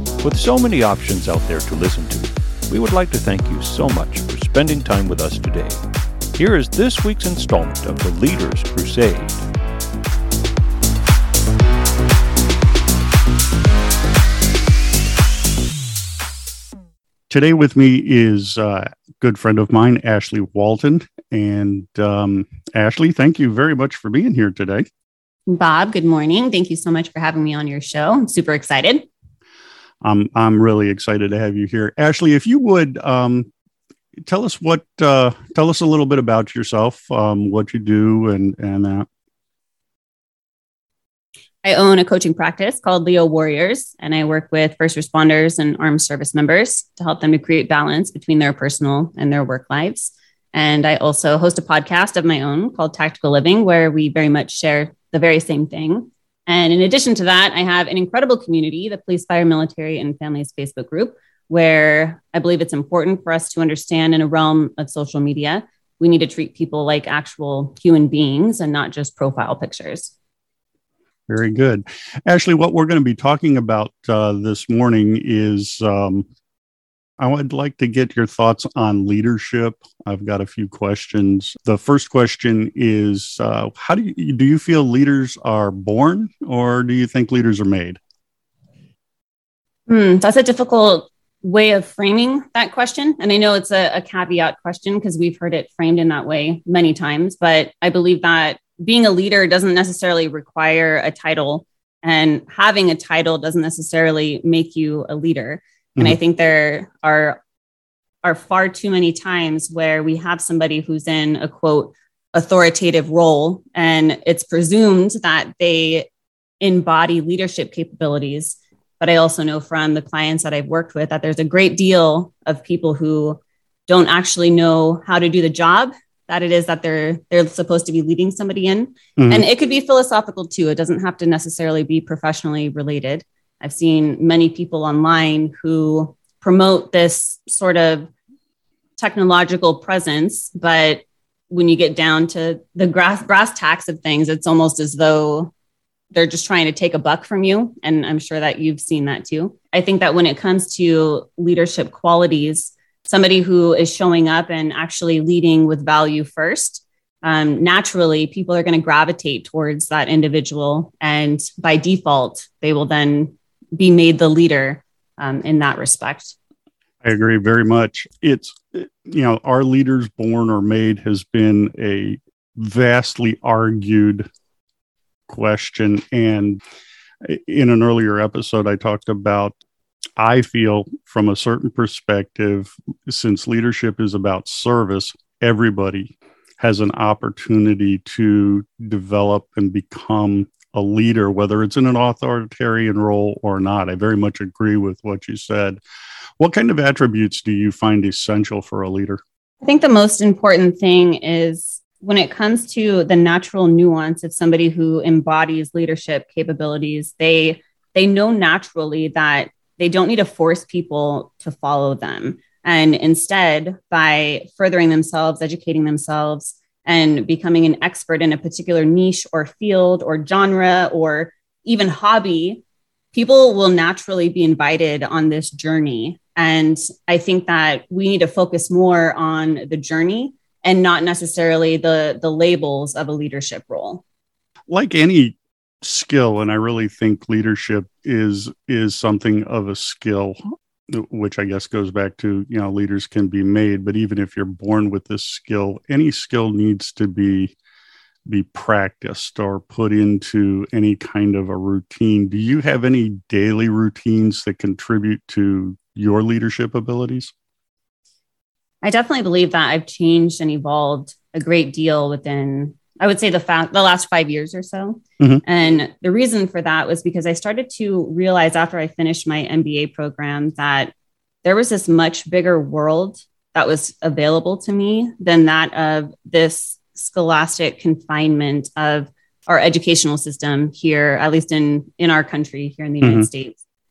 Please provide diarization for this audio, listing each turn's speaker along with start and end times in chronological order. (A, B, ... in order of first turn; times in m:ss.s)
0:00.2-0:05.8 A
0:06.3-0:09.4 A
0:17.3-0:24.8 B
0:25.5-0:29.0 C
0:30.0-0:33.5 B
0:34.2-0:39.1 B
0:41.6-1:10.1 C
1:11.3-1:16.3 B
1:17.2-1:28.0 B
1:29.9-1:47.4 C
1:48.2-1:56.1 C
1:56.6-2:18.1 C
2:09.2-2:09.4 B
2:19.0-2:25.5 C
2:26.1-2:46.4 C
2:47.0-2:54.2 B
2:55.3-2:56.6 B
2:57.2-2:59.5 B
3:00.2-3:15.8 B
3:16.4-3:19.2 B
3:19.6-3:42.6 C
3:43.1-3:54.0 C
3:54.7-4:00.4 B
4:00.9-4:07.5 B
4:08.3-4:17.3 B
4:18.8-4:30.9 C
4:31.4-4:43.6 C
4:43.0-4:43.3 B